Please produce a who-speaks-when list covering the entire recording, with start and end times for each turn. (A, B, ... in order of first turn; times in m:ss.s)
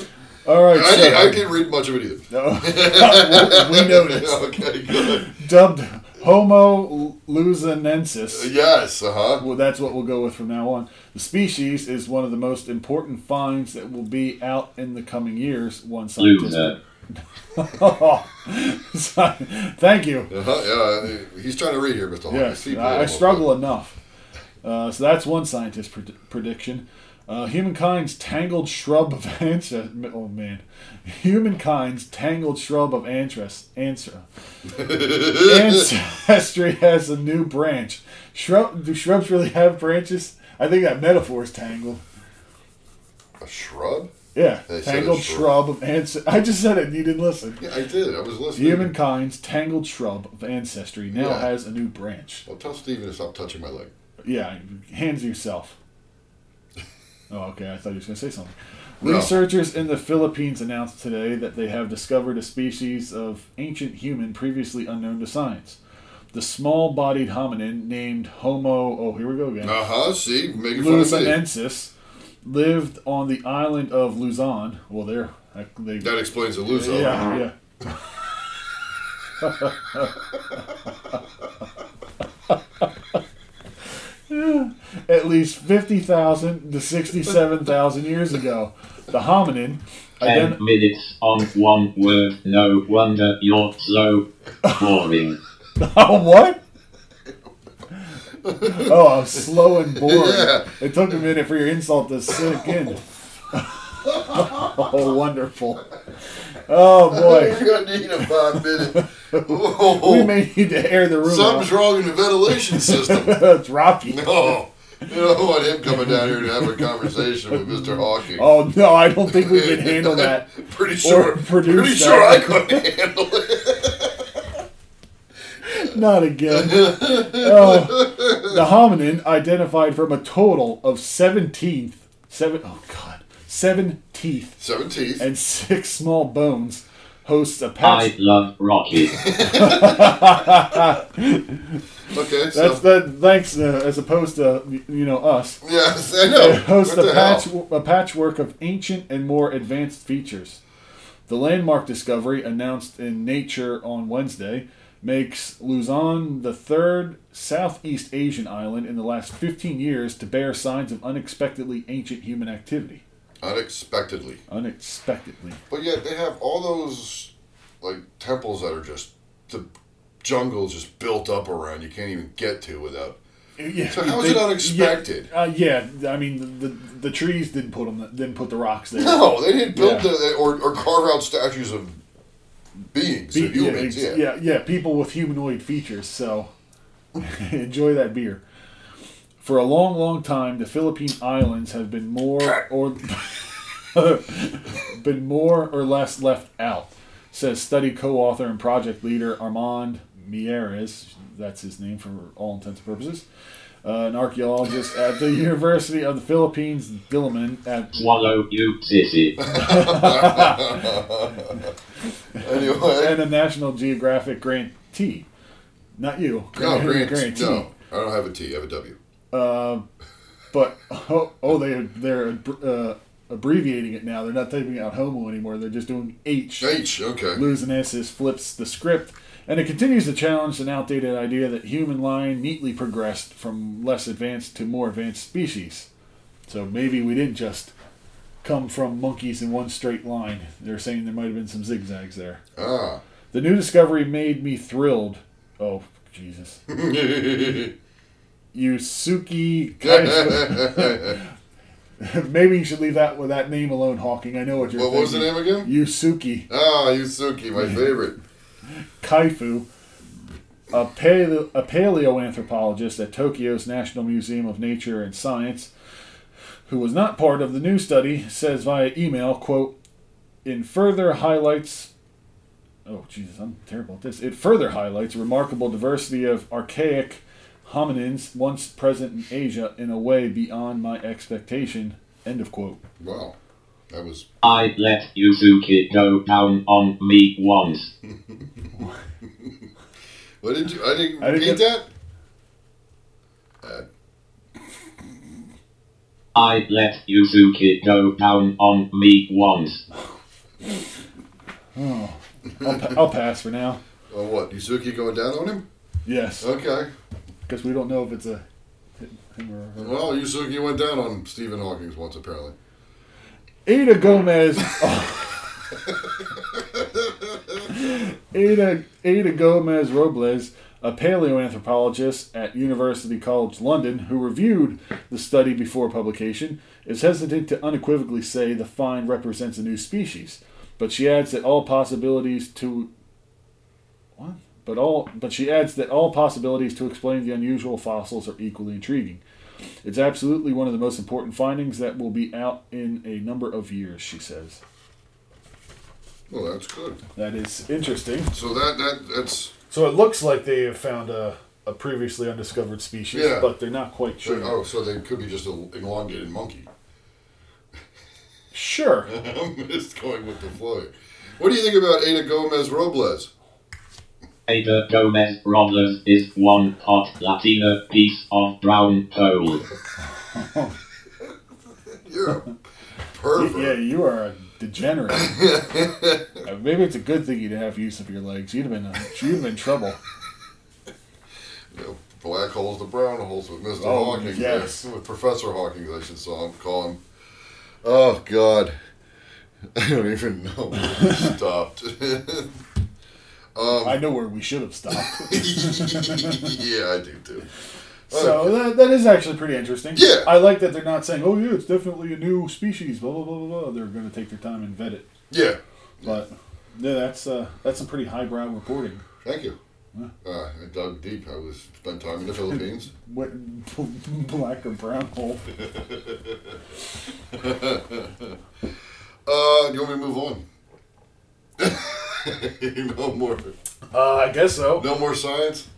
0:00.4-0:01.4 A
0:00.7-0:05.3 B
0:02.3-0:08.5 A
0:08.3-0:09.4 B
0:09.4-0:16.8 A
0:16.2-0:16.8 C
0:17.5-0:20.3 A
0:20.3-0:23.5 B
0:22.3-0:24.0 A
0:24.6-0:34.2 A
0:34.7-0:35.8 B
0:35.2-0:42.0 A
0:43.4-0:44.1 B
0:44.3-0:47.6 A
0:44.7-0:45.6 B
0:47.6-0:48.9 B
0:48.5-0:52.4 A
0:51.1-0:51.5 B
0:52.5-0:53.9 B
0:54.2-0:55.8 A
0:57.3-1:05.8 A
0:59.0-0:59.4 B
1:06.3-1:09.8 A
1:09.6-1:11.4 B
1:10.7-1:11.9 A
1:12.4-1:16.1 A
1:16.0-1:17.3 B
1:16.7-1:17.5 A
1:19.4-1:20.2 A
1:24.3-1:30.6 A
1:30.2-1:35.4 C
1:35.8-1:36.6 A
1:38.4-1:40.7 B
1:38.6-1:43.0 A
1:43.5-1:45.9 A
1:44.0-1:44.9 B
1:46.7-1:51.8 A
1:47.1-1:50.3 B
1:51.2-1:53.4 B
1:52.5-1:54.4 A
1:54.1-1:58.6 B
1:55.9-1:56.9 A
1:57.5-2:00.5 A
1:59.2-2:04.3 B
2:01.0-2:02.8 A
2:05.6-2:14.6 A
2:06.5-2:08.6 B
2:14.6-2:15.2 B
2:15.2-2:18.1 A
2:17.8-2:19.2 C
2:19.1-2:20.3 B
2:19.4-2:21.8 A
2:22.1-2:22.8 B
2:22.5-2:25.6 A
2:25.6-2:27.5 B
2:26.2-2:30.6 A
2:31.3-2:43.0 A
2:43.4-2:44.4 B
2:44.5-2:45.6 A
2:45.7-2:49.7 B
2:50.2-2:53.2 B
2:53.6-3:00.1 A
2:53.9-2:55.3 B
2:58.9-3:02.0 B
3:02.9-3:04.2 B
3:03.3-3:06.5 A
3:07.2-3:08.4 A
3:09.4-3:23.2 A
3:23.8-3:27.9 A
3:27.9-3:29.4 C
3:29.4-3:31.7 B
3:29.5-3:30.9 A
3:32.4-3:33.2 B
3:32.4-3:35.2 A
3:36.0-3:37.7 A
3:36.5-3:39.0 B
3:39.3-3:39.8 A
3:40.5-3:46.7 A
3:46.6-3:47.4 B
3:47.3-3:55.9 A
3:56.5-3:57.7 A
3:58.4-4:02.4 A
4:02.6-4:03.0 B
4:03.3-4:06.6 A
4:06.7-4:07.7 B
4:08.5-4:11.3 A
4:09.8-4:11.2 B
4:12.0-4:16.5 A
4:14.7-4:15.7 B
4:16.5-4:18.2 B
4:19.0-4:19.7 A
4:20.7-4:25.7 A
4:26.7-4:29.8 A
4:30.4-4:31.9 A
4:32.8-4:42.8 A
4:43.0-4:43.4 B
4:43.9-4:44.2 B
4:44.4-4:47.9 C
4:50.4-4:51.9 B
4:51.2-4:51.6 A
4:53.6-4:53.9 B
4:56.3-4:59.8 C
5:01.8-5:03.8 A
5:02.6-5:03.0 B
5:04.1-5:05.6 B
5:06.0-5:06.5 A
5:06.4-5:06.9 B
5:07.5-5:08.4 A
5:09.0-5:10.1 A
5:09.8-5:12.5 B
5:13.6-5:15.5 A
5:16.5-5:17.6 B
5:17.7-5:32.9 A
5:34.2-5:39.2 A
5:39.8-5:44.6 A
5:46.3-5:47.0 B
5:47.2-5:48.3 A
5:48.3-5:49.5 B
5:49.7-5:54.6 A
5:53.1-5:53.5 B
5:54.2-5:56.7 B
5:58.5-5:59.1 A
5:59.1-6:03.3 B
6:04.5-6:09.6 C
6:10.0-6:10.7 A
6:11.9-6:12.5 B
6:13.1-6:13.8 B
6:13.3-6:15.4 A
6:15.1-6:16.4 B
6:16.4-6:20.0 A
6:21.7-6:27.0 B
6:23.8-6:24.9 A
6:27.8-6:28.7 B
6:29.7-6:32.6 B
6:31.0-6:31.3 A
6:33.5-6:34.0 B
6:33.8-6:36.6 A
6:34.9-6:37.5 B
6:38.1-6:38.6 B
6:38.1-6:45.0 A
6:39.9-6:40.3 B
6:45.3-6:46.2 B
6:46.0-6:49.0 A
6:49.2-6:49.6 B
6:50.2-6:52.9 B
6:52.5-6:55.4 A
6:55.6-6:56.5 B
6:57.3-6:58.3 B
6:59.2-7:00.4 B
7:01.6-7:03.5 B
7:03.9-7:04.9 A
7:04.8-7:05.7 B